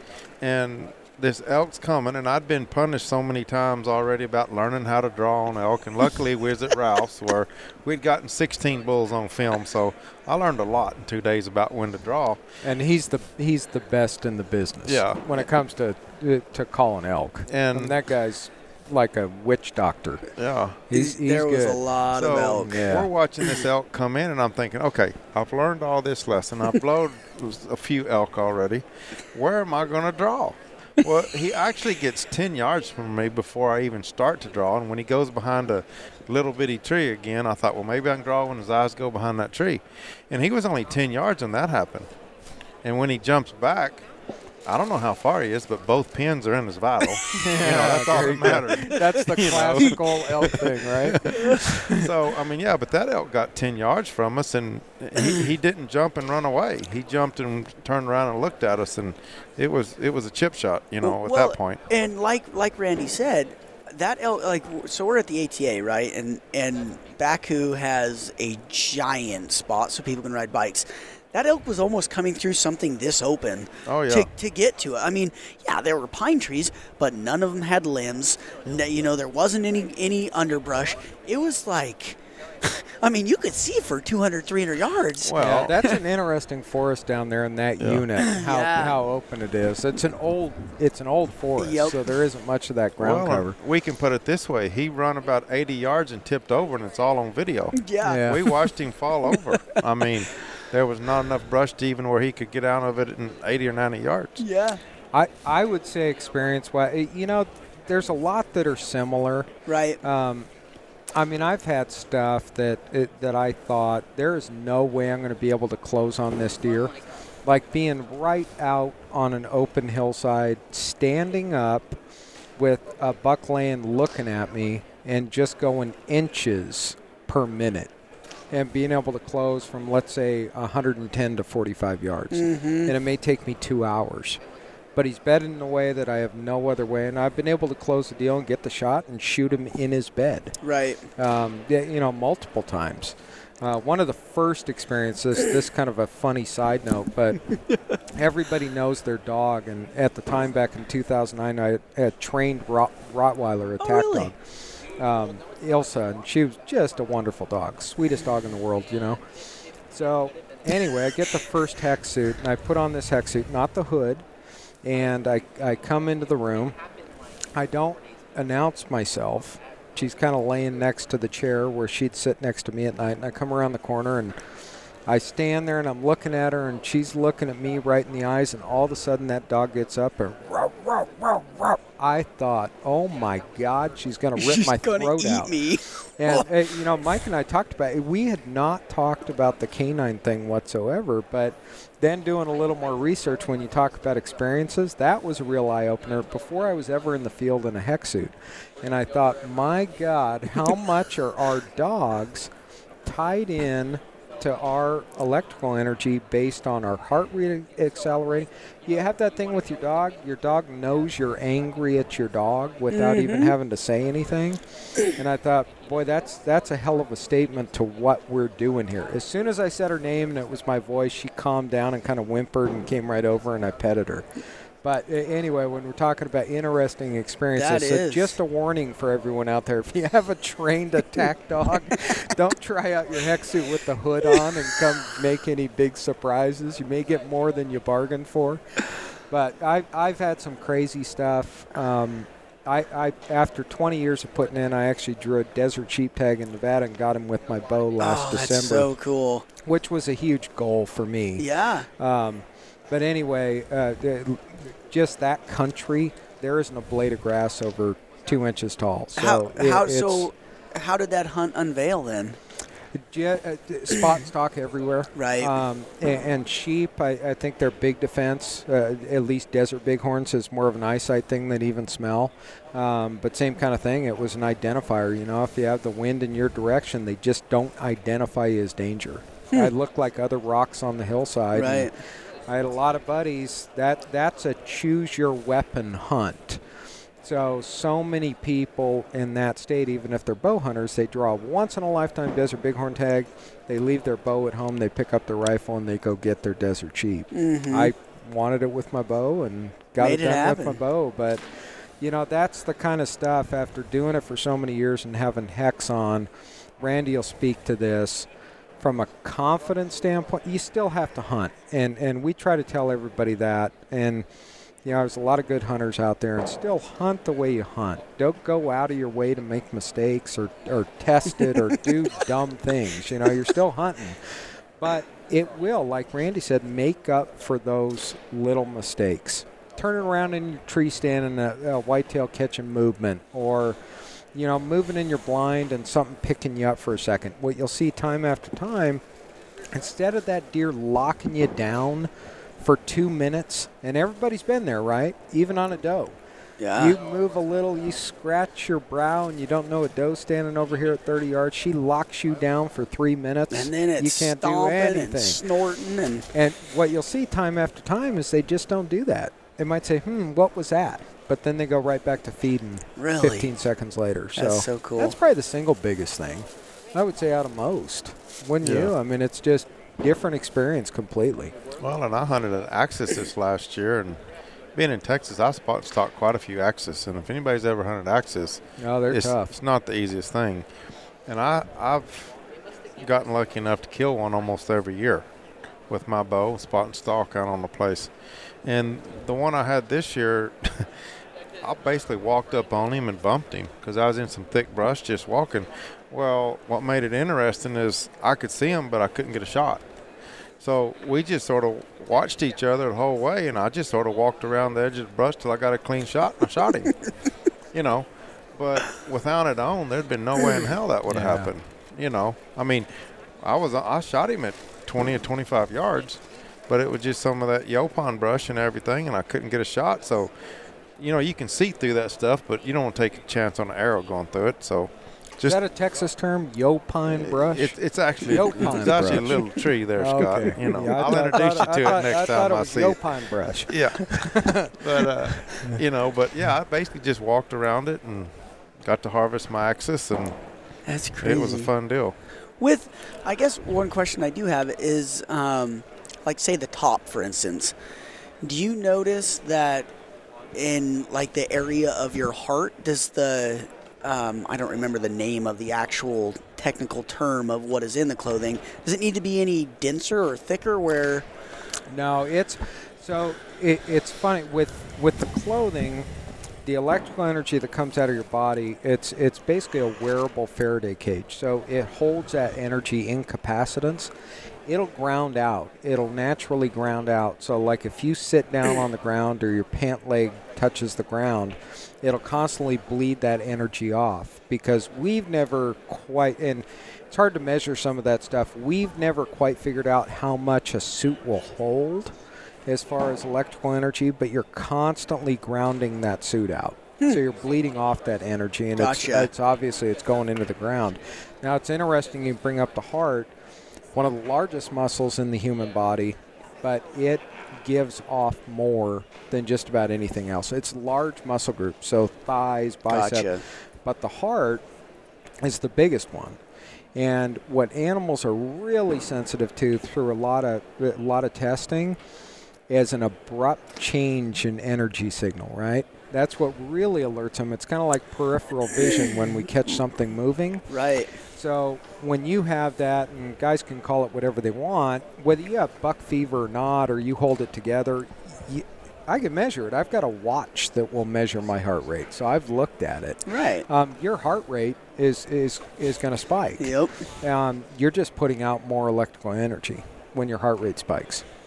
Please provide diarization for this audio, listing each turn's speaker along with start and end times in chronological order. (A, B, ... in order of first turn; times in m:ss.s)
0:00.4-0:12.4 A
0:12.6-0:20.3 B
0:14.8-0:15.2 A
0:17.5-0:18.0 A
0:20.4-0:20.8 A
0:20.9-0:21.8 B
0:20.9-0:22.8 C
0:22.1-0:42.1 A
0:22.5-0:23.1 B
0:42.8-0:44.0 A
0:44.6-1:01.8 A
0:47.4-0:52.0 B
0:51.3-0:51.6 C
1:01.0-1:26.0 C
1:13.8-1:14.3 A
1:25.2-1:25.7 A
1:25.4-1:33.6 B
1:27.8-1:28.0 A
1:28.2-1:29.0 C
1:31.6-1:32.1 C
1:33.0-1:44.4 A
1:37.7-1:38.7 C
1:38.0-1:38.4 B
1:39.3-1:39.8 C
1:44.4-1:44.8 C
1:45.1-1:49.5 B
1:49.7-1:50.0 C
1:50.0-1:50.5 B
1:51.1-1:56.9 B
1:57.4-2:02.0 B
2:02.6-2:07.9 B
2:08.5-2:14.4 B
2:12.3-2:12.9 C
2:15.0-2:20.6 B
2:20.6-2:21.0 C
2:21.2-2:27.4 B
2:28.1-2:34.3 B
2:33.8-2:34.3 C
2:35.0-2:39.2 B
2:39.9-2:44.2 B
2:44.8-2:46.7 B
2:47.5-2:54.4 B
2:55.1-3:05.5 B
3:04.4-3:06.6 C
3:06.2-3:22.5 B
3:23.0-3:44.2 B
3:32.9-3:33.5 C
3:44.8-4:08.9 B
3:47.6-3:48.3 C
4:08.0-4:09.4 C
4:09.6-4:20.3 B
4:11.4-4:11.9 C
4:19.2-4:22.4 C
4:22.9-4:41.9 B
4:25.2-4:25.5 C
4:41.5-4:41.9 C
4:42.5-4:46.6 B
4:47.2-5:01.4 B
4:57.3-4:57.9 C
5:00.0-5:00.8 C
5:02.0-5:08.3 B
5:08.8-5:14.2 B
5:14.8-5:33.8 B
5:21.4-5:21.7 C
5:34.3-5:39.0 B
5:39.7-5:42.1 B
5:42.6-5:46.2 B
5:46.6-5:47.0 C
5:46.7-5:55.4 B
5:53.5-5:56.3 C
5:56.3-6:11.5 B
6:03.0-6:03.5 C
6:04.4-6:05.2 C
6:08.6-6:08.9 A
6:11.8-6:14.2 A
6:14.7-6:20.7 A
6:18.8-6:19.6 B
6:21.3-6:22.4 A
6:23.0-6:25.3 A
6:25.9-6:28.1 A
6:28.6-6:30.9 A
6:31.6-6:39.8 A
6:40.6-6:46.9 A
6:47.7-6:52.9 A
6:51.1-6:51.5 B
6:53.4-7:00.3 A
7:01.0-7:05.6 A
7:05.4-7:15.8 B
7:07.1-7:13.0 A
7:13.6-7:20.3 A
7:20.8-7:21.7 C
7:21.2-7:22.1 A
7:22.6-7:27.7 C
7:28.4-7:29.9 C
7:30.5-7:41.3 C
7:41.9-7:46.1 B
7:46.6-7:54.1 B
7:54.7-8:12.1 B
8:12.7-8:23.3 B
8:18.8-8:19.3 C
8:23.9-8:33.3 B
8:32.9-8:33.4 C
8:33.8-8:34.6 B
8:35.4-8:36.4 B
8:37.0-8:42.0 B
8:42.7-8:50.6 B
8:50.7-8:51.1 C
8:51.4-9:11.2 B
9:03.3-9:03.6 C
9:06.6-9:07.0 C